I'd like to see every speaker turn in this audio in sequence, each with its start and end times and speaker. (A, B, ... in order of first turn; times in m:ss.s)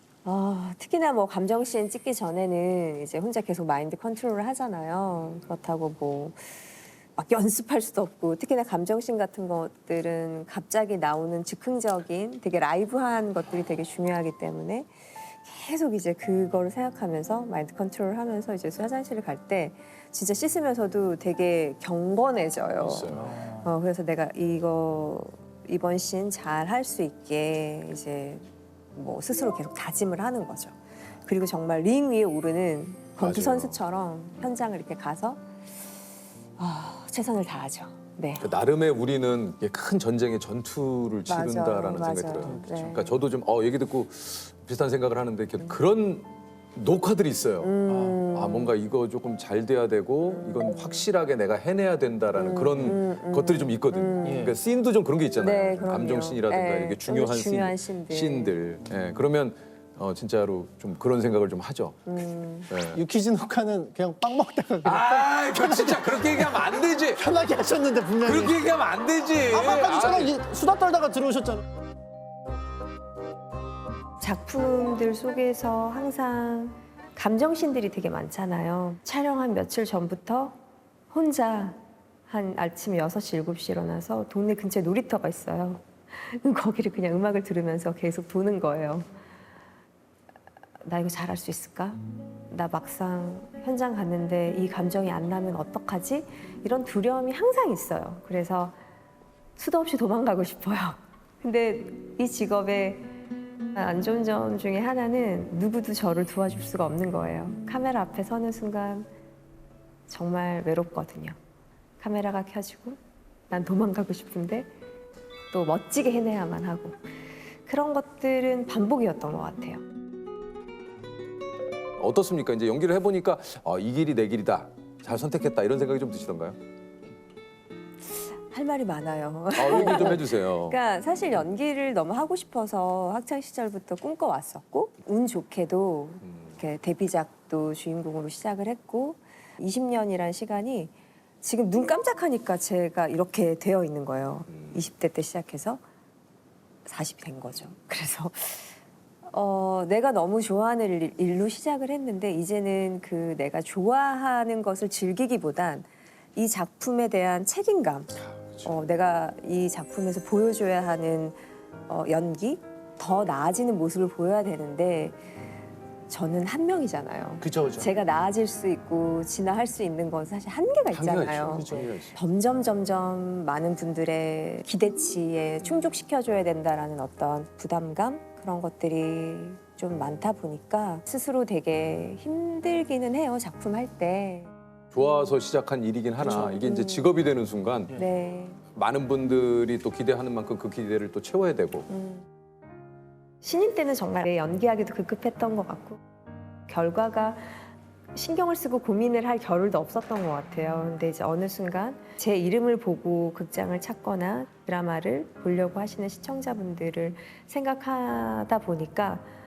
0:00.2-0:06.6 A
0:07.2-0:28.4 A
0:22.8-0:23.6 B
0:29.0-0:35.4 A
0:33.2-0:33.8 B
0:36.6-0:38.5 A
0:38.4-0:47.7 B
0:41.3-0:43.1 A
0:47.6-0:48.7 A
0:48.3-1:02.0 B
0:50.3-0:51.1 A
0:52.3-0:54.6 A
0:55.4-0:58.6 A
1:02.1-1:02.7 A
1:02.7-1:03.0 B
1:02.9-1:08.6 C
1:04.8-1:07.3 B
1:08.2-1:10.4 B
1:09.5-1:11.6 C
1:14.2-1:20.6 A
1:21.1-1:29.1 A
1:30.8-1:38.8 A
1:39.6-1:43.1 A
1:43.7-1:49.1 A
1:50.1-1:51.4 A
1:52.0-1:53.0 A
1:53.5-1:54.7 A
1:55.5-1:57.0 A
1:57.7-1:59.8 A
2:02.0-2:06.6 B
2:08.1-2:25.8 A
2:09.6-2:10.8 B
2:26.8-2:28.8 A
2:29.3-2:41.4 A
2:41.9-2:45.2 A
2:46.1-3:04.5 A
2:47.4-2:47.9 B
2:50.9-2:52.2 B
3:04.9-3:08.0 B
3:06.2-3:07.2 A
3:07.9-3:08.6 A
3:08.7-3:11.9 B
3:11.9-3:12.3 A
3:13.4-3:16.0 A
3:16.7-3:17.6 A
3:18.2-3:29.2 A